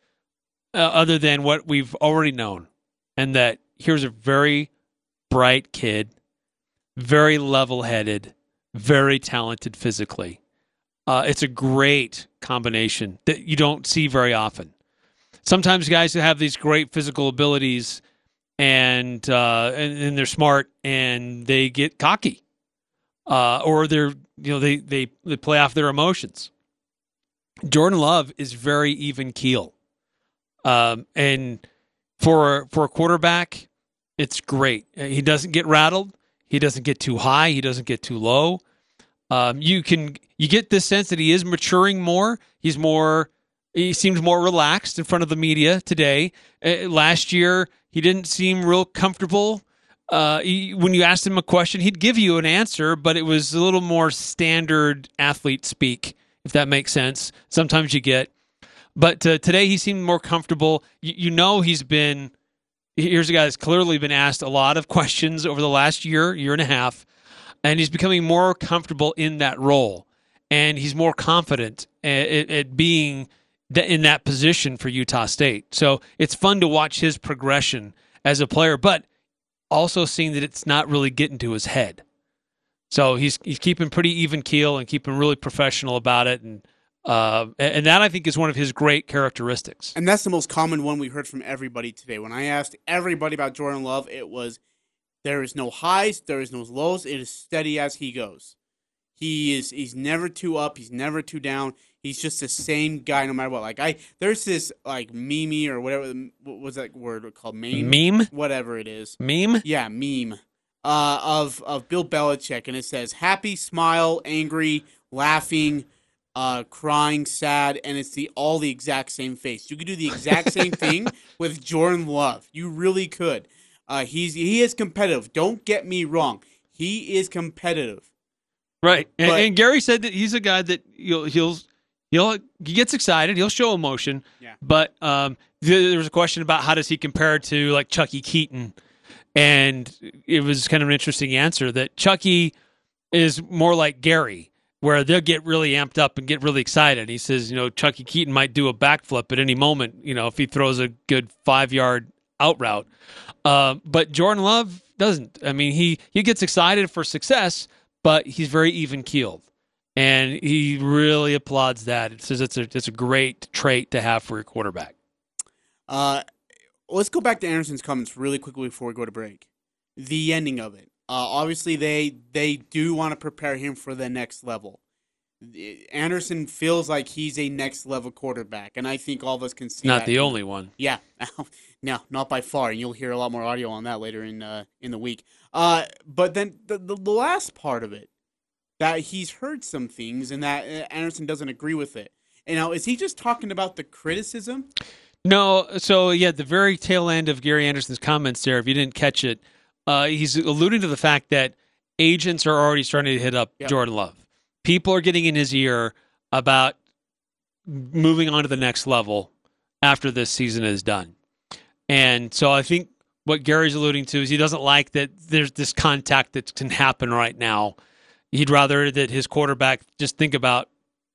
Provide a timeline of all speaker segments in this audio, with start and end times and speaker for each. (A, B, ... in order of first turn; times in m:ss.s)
0:00.7-0:04.7 A
0:05.3-0:06.1 A
0:07.0-0:10.4 A
0:11.1-0:14.7 A
0:15.4-0:18.0 A
0:18.6-0:22.4 A
0:23.3-0:26.5 A
0:27.7-0:29.7 A
0:30.6-0:31.6 A
0:32.2-0:33.7 A
0:34.2-0:38.6 A
0:39.3-0:58.3 A
0:59.0-1:02.3 A
1:03.0-1:07.1 A
1:07.6-1:19.0 A
1:19.7-1:22.0 A
1:22.9-1:30.0 A
1:30.0-1:34.6 B
1:35.2-1:38.6 B
1:39.2-2:08.1 B
1:47.7-1:48.3 A
1:49.2-1:49.6 A
2:08.8-2:18.8 A
2:09.2-2:09.5 B
2:19.4-2:22.5 A
2:23.1-2:32.9 A
2:33.4-2:39.4 A
2:40.0-2:44.9 A
2:45.9-2:46.2 B
2:46.9-2:49.5 B
2:50.0-2:54.8 B
2:55.4-3:08.1 B
2:59.8-3:00.7 A
3:08.8-3:14.7 B
3:15.2-3:26.8 A
3:27.7-3:29.3 A
3:29.8-3:31.1 A
3:31.9-3:37.8 A
3:38.3-3:40.7 A